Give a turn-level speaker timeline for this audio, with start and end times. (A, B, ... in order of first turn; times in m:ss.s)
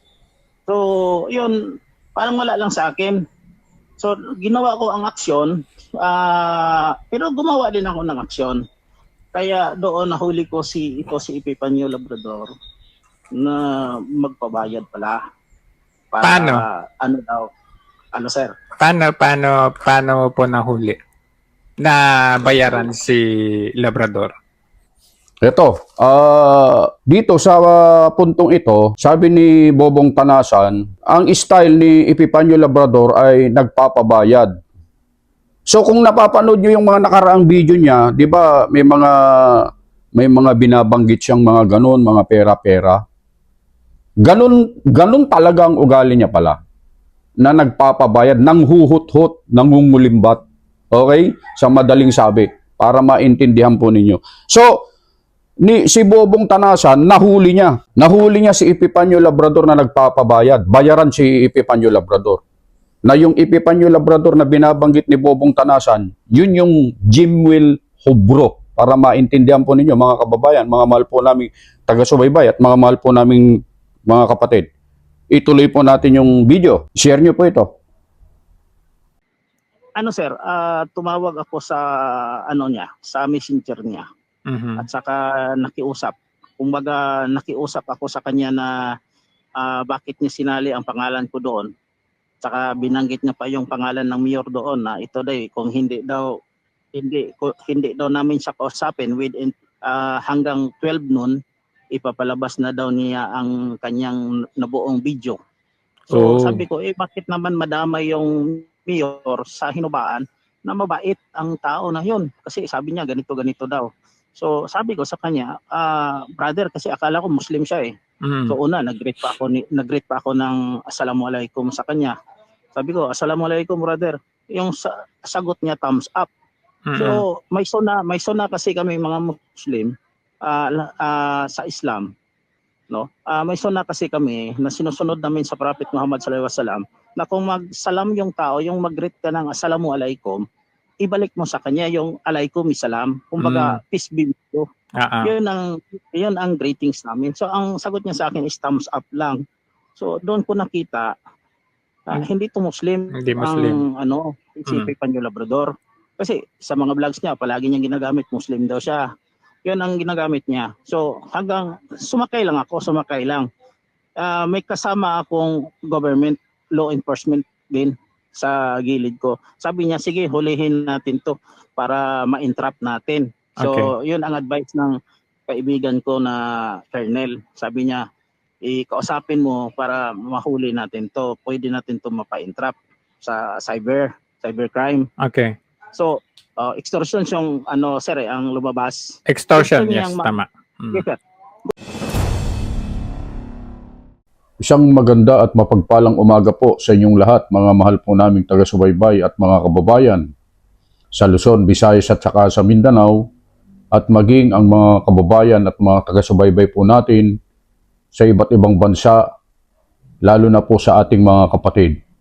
0:00.7-0:01.5 A
0:02.2-0:03.2 A
0:04.0-0:08.6 A
0:09.3-0:12.5 A
0:13.4-0:15.2 A
0:16.1-0:17.4 A
0:16.2-0:16.6 B
0:18.2-0:18.5 A
0:18.8-0:21.0 B
0:21.8-0:24.3 B
0:25.4-0:34.5 C
0:35.7-0:43.0 C
0:44.2-0:46.6 C
0:47.4-0:54.7 C
0:55.6-1:02.4 C
1:03.0-1:13.5 C
1:14.1-1:14.7 C
1:15.3-1:17.7 C
1:20.0-1:21.8 A
1:22.5-1:24.0 A
1:24.5-1:24.9 B
1:24.8-1:28.7 A
1:29.6-1:31.7 A
1:32.4-1:36.2 A
1:36.9-1:41.3 A
1:41.9-1:45.4 A
1:46.1-1:57.9 A
1:46.1-1:46.6 B
1:58.2-1:58.6 B
1:58.5-2:02.1 A
2:02.8-2:06.3 A
2:06.9-2:07.2 B
2:07.0-2:09.9 A
2:10.4-2:12.1 A
2:12.9-2:20.4 A
2:21.0-2:24.7 A
2:23.4-2:23.8 B
2:25.0-2:25.3 B
2:25.2-2:29.4 A
2:30.0-2:31.1 A
2:32.1-2:39.0 A
2:33.2-2:33.8 B
2:39.6-2:43.5 A
2:44.2-2:54.9 A
2:53.6-2:53.9 B
2:55.5-2:58.0 A
2:58.7-3:05.0 A
3:05.2-3:05.6 B
3:05.9-3:09.0 A
3:09.3-3:11.0 B
3:09.5-3:10.4 A
3:10.9-3:11.2 A
3:14.6-3:20.2 C
3:21.1-3:23.3 C
3:23.9-3:27.3 C
3:28.1-3:29.2 C
3:30.3-3:32.0 C